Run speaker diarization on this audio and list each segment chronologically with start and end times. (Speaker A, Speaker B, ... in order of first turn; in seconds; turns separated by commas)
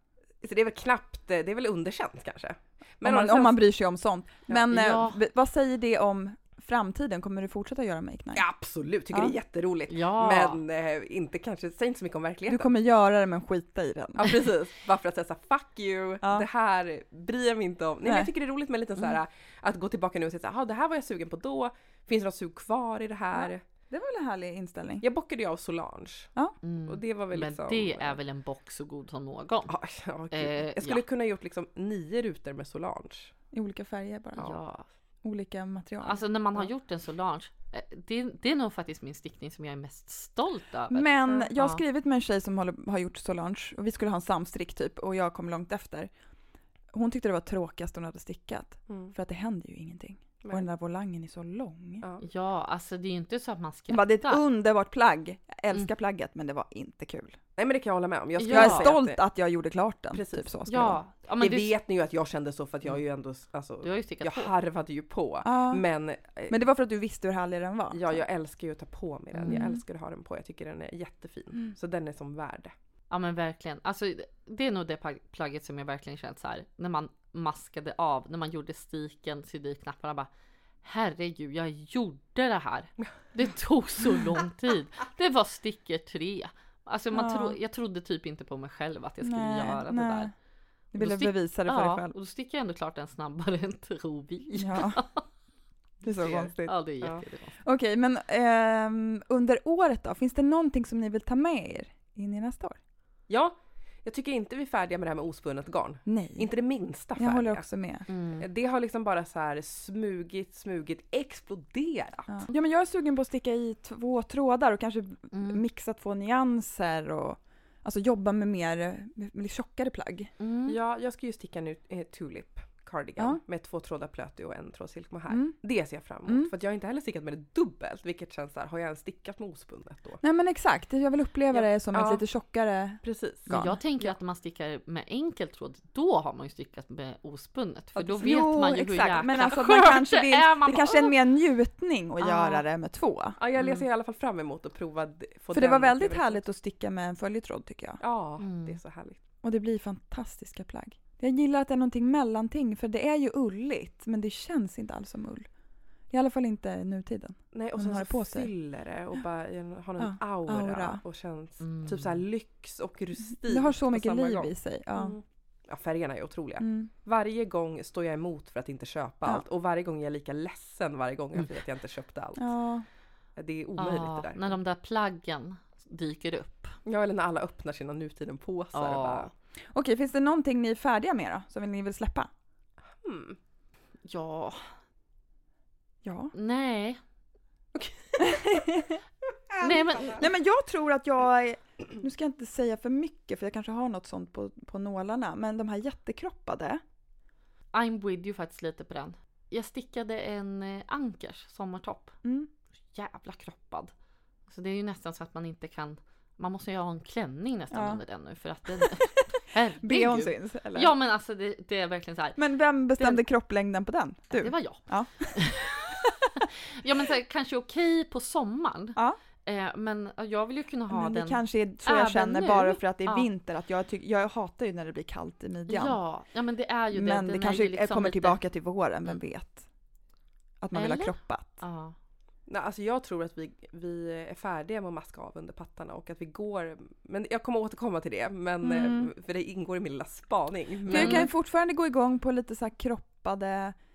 Speaker A: 0.4-3.6, Speaker B: 3.0-8.4, Speaker C: 4.7-5.2, Speaker A: 8.3-12.7, Speaker C: 9.9-10.6, Speaker B: 12.5-14.3, Speaker A: 14.2-23.6, Speaker B: 18.0-18.3, Speaker B: 23.3-25.0, Speaker A: 25.0-26.3, Speaker C: 26.6-29.7, Speaker A: 26.9-28.2, Speaker A: 29.7-33.3, Speaker C: 30.3-31.0, Speaker B: 33.5-34.5, Speaker C: 34.4-34.9, Speaker B: 35.2-36.2, Speaker C: 36.0-41.8, Speaker B: 40.9-46.1, Speaker B: 46.9-52.0, Speaker A: 48.9-49.1, Speaker C: 52.2-54.4, Speaker B: 53.9-57.4, Speaker A: 57.6-59.2, Speaker C: 58.4-58.9, Speaker B: 58.5-61.0, Speaker A: 60.1-60.6, Speaker C: 60.7-61.7, Speaker A: 61.4-66.6, Speaker C: 63.8-64.5, Speaker B: 65.4-65.8, Speaker B: 66.5-68.2, Speaker A: 67.9-72.7, Speaker C: 69.4-69.7, Speaker B: 69.5-69.8, Speaker C: 73.1-80.3, Speaker C: 80.8-90.3, Speaker B: 87.1-87.6, Speaker B: 89.2-90.3, Speaker B: 90.9-92.1, Speaker C: 91.0-95.2, Speaker B: 94.6-95.0, Speaker B: 96.0-96.7, Speaker A: 96.2-96.5, Speaker C: 96.2-97.6, Speaker B: 97.6-102.8, Speaker A: 103.3-107.6, Speaker B: 106.0-106.5, Speaker B: 107.2-108.0, Speaker C: 108.1-108.4, Speaker A: 108.4-112.3, Speaker B: 112.3-120.3, Speaker C: 115.3-115.6, Speaker C: 120.4-120.8, Speaker A: 120.7-130.2, Speaker B: 125.3-125.5, Speaker B: 130.2-133.8, Speaker A: 131.5-132.2, Speaker A: 133.0-134.1, Speaker C: 133.5-141.2, Speaker A: 138.0-138.2, Speaker B: 138.2-143.4, Speaker C: 142.2-142.6, Speaker A: 143.4-146.4, Speaker C: 143.6-143.8, Speaker B: 145.5-148.0, Speaker A: 148.0-149.2, Speaker C: 148.4-148.8, Speaker B: 149.4-155.5, Speaker B: 156.1-158.5, Speaker A: 157.5-172.5, Speaker B: 160.0-161.0, Speaker C: 161.6-162.2, Speaker B: 163.4-165.2, Speaker B: 166.6-166.9, Speaker B: 172.4-172.8, Speaker A: 173.3-174.6, Speaker C: 173.8-176.7, Speaker A: 176.8-179.3, Speaker C: 178.7-179.3, Speaker B: 179.7-182.3, Speaker A: 183.0-183.4, Speaker C: 184.1-184.7, Speaker B: 186.0-186.3, Speaker C: 186.3-187.0, Speaker A: 187.7-188.4, Speaker B: 188.2-189.0, Speaker A: 189.5-190.2, Speaker C: 189.6-190.2, Speaker B: 190.1-196.8, Speaker C: 197.7-202.1, Speaker B: 202.2-202.5, Speaker C: 202.9-203.9, Speaker C: 204.5-212.4, Speaker B: 207.7-208.0, Speaker B: 208.8-209.1, Speaker B: 209.8-210.9, Speaker B: 212.4-216.4, Speaker C: 214.3-223.3, Speaker B: 220.9-226.0, Speaker C: 225.7-228.4, Speaker B: 226.9-229.6, Speaker B: 230.6-231.6, Speaker C: 230.7-231.9, Speaker A: 232.5-241.3, Speaker B: 238.6-239.1, Speaker B: 240.9-243.8, Speaker C: 240.9-241.3